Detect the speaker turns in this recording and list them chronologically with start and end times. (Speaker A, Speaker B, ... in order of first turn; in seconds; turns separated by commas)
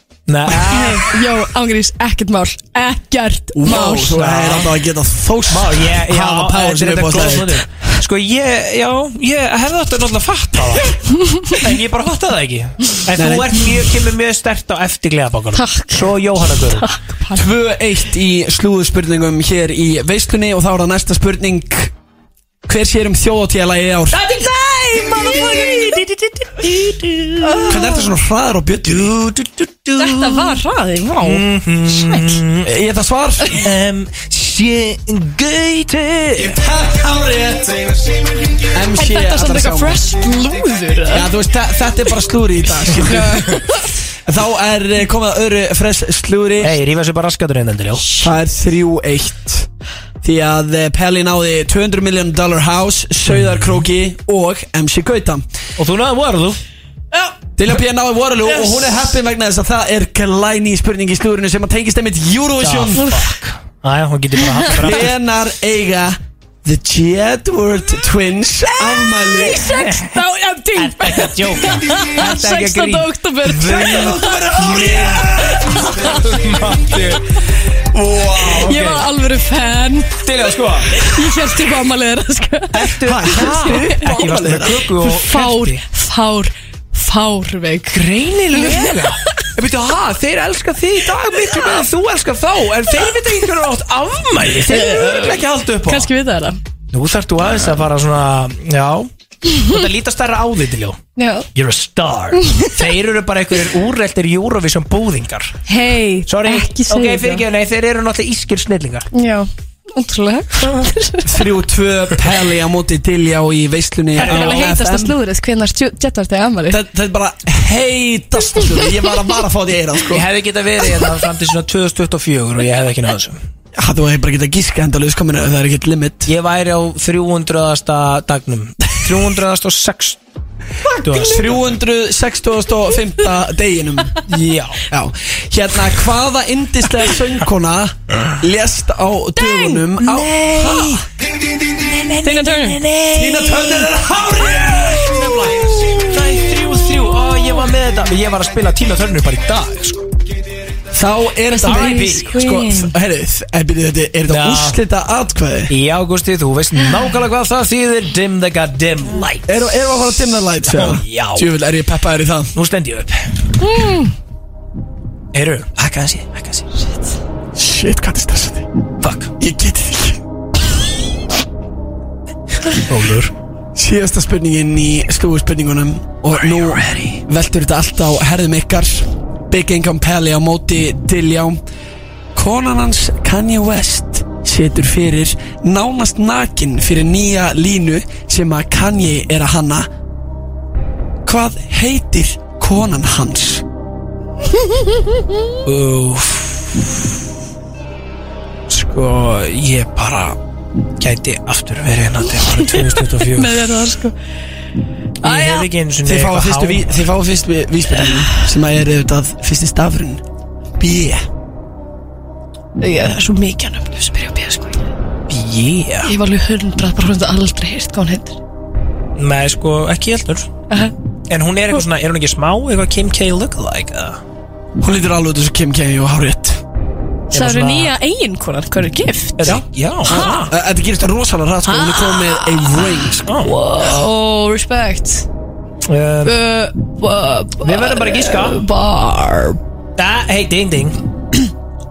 Speaker A: 0.3-1.1, Speaker B: 0.5-4.2, Speaker C: 3.6-7.6, Speaker A: 3.9-4.7, Speaker A: 5.5-16.9, Speaker B: 11.1-11.6, Speaker C: 13.2-13.7, Speaker B: 15.5-17.4, Speaker C: 17.3-21.9, Speaker C: 22.7-24.2, Speaker A: 24.1-27.8, Speaker B: 24.4-26.0, Speaker B: 27.4-28.1, Speaker C: 27.7-29.1, Speaker A: 28.9-30.6, Speaker B: 30.0-32.4, Speaker A: 31.2-32.7, Speaker C: 32.6-33.6, Speaker A: 33.5-36.6, Speaker C: 36.4-40.0, Speaker B: 39.0-41.3, Speaker C: 41.1-43.6, Speaker B: 43.0-44.0, Speaker C: 44.3-46.8, Speaker A: 46.6-48.1, Speaker C: 48.2-49.7, Speaker C: 50.2-55.5, Speaker A: 53.3-53.9, Speaker A: 55.8-56.6, Speaker B: 57.1-57.4, Speaker C: 57.6-63.0, Speaker A: 62.6-65.2, Speaker B: 63.0-63.3, Speaker C: 64.7-69.7, Speaker B: 68.8-74.6, Speaker A: 69.7-70.2, Speaker A: 70.8-77.3, Speaker C: 73.8-75.9, Speaker B: 75.4-76.2, Speaker C: 77.9-78.8, Speaker B: 78.5-80.2, Speaker A: 78.6-79.1, Speaker A: 80.2-81.1, Speaker B: 80.9-89.3, Speaker A: 82.7-85.8, Speaker C: 83.0-84.9, Speaker A: 87.9-96.1, Speaker B: 93.0-93.3, Speaker B: 94.6-96.6, Speaker A: 96.9-101.0, Speaker B: 101.2-101.5, Speaker A: 101.5-105.6, Speaker B: 102.4-102.7, Speaker B: 105.7-107.4, Speaker A: 106.3-109.1, Speaker B: 109.1-111.5, Speaker C: 111.3-115.2, Speaker B: 114.2-116.8, Speaker A: 114.2-114.7, Speaker C: 116.7-120.2, Speaker A: 120.1-123.4, Speaker C: 123.8-126.3, Speaker A: 126.3-130.2, Speaker A: 130.9-131.7, Speaker C: 131.1-134.2, Speaker A: 134.3-134.8, Speaker C: 134.9-141.1, Speaker B: 139.4-139.8, Speaker A: 140.0-141.0, Speaker A: 141.8-150.0, Speaker B: 142.2-142.8, Speaker C: 143.1-145.9, Speaker C: 150.9-155.7, Speaker B: 151.5-152.9, Speaker A: 151.6-152.4, Speaker A: 154.3-154.8, Speaker A: 155.7-161.5, Speaker C: 159.5-162.5, Speaker A: 162.6-163.2, Speaker B: 163.6-164.1, Speaker A: 165.3-166.7, Speaker C: 167.6-168.7, Speaker A: 169.0-169.3, Speaker C: 169.4-170.2, Speaker A: 172.8-173.3, Speaker C: 173.8-181.6, Speaker A: 176.3-177.2, Speaker C: 182.3-189.9, Speaker C: 191.2-193.6, Speaker B: 194.5-195.4, Speaker A: 195.7-197.0, Speaker A: 198.7-200.4, Speaker A: 201.0-203.6, Speaker B: 202.5-204.1, Speaker A: 205.2-207.0, Speaker B: 205.2-205.7, Speaker C: 206.1-210.2, Speaker B: 208.1-208.4, Speaker C: 210.8-211.2, Speaker B: 212.8-214.8, Speaker A: 215.3-216.1, Speaker B: 216.1-218.4, Speaker A: 219.2-220.5, Speaker A: 221.3-224.2, Speaker C: 224.8-226.6, Speaker A: 227.3-227.9, Speaker B: 227.3-230.5, Speaker A: 229.4-230.5, Speaker C: 229.5-233.3, Speaker B: 231.7-235.3, Speaker A: 233.2-233.5, Speaker A: 235.8-236.3, Speaker B: 236.3-239.6, Speaker A: 237.6-238.6, Speaker A: 240.0-241.0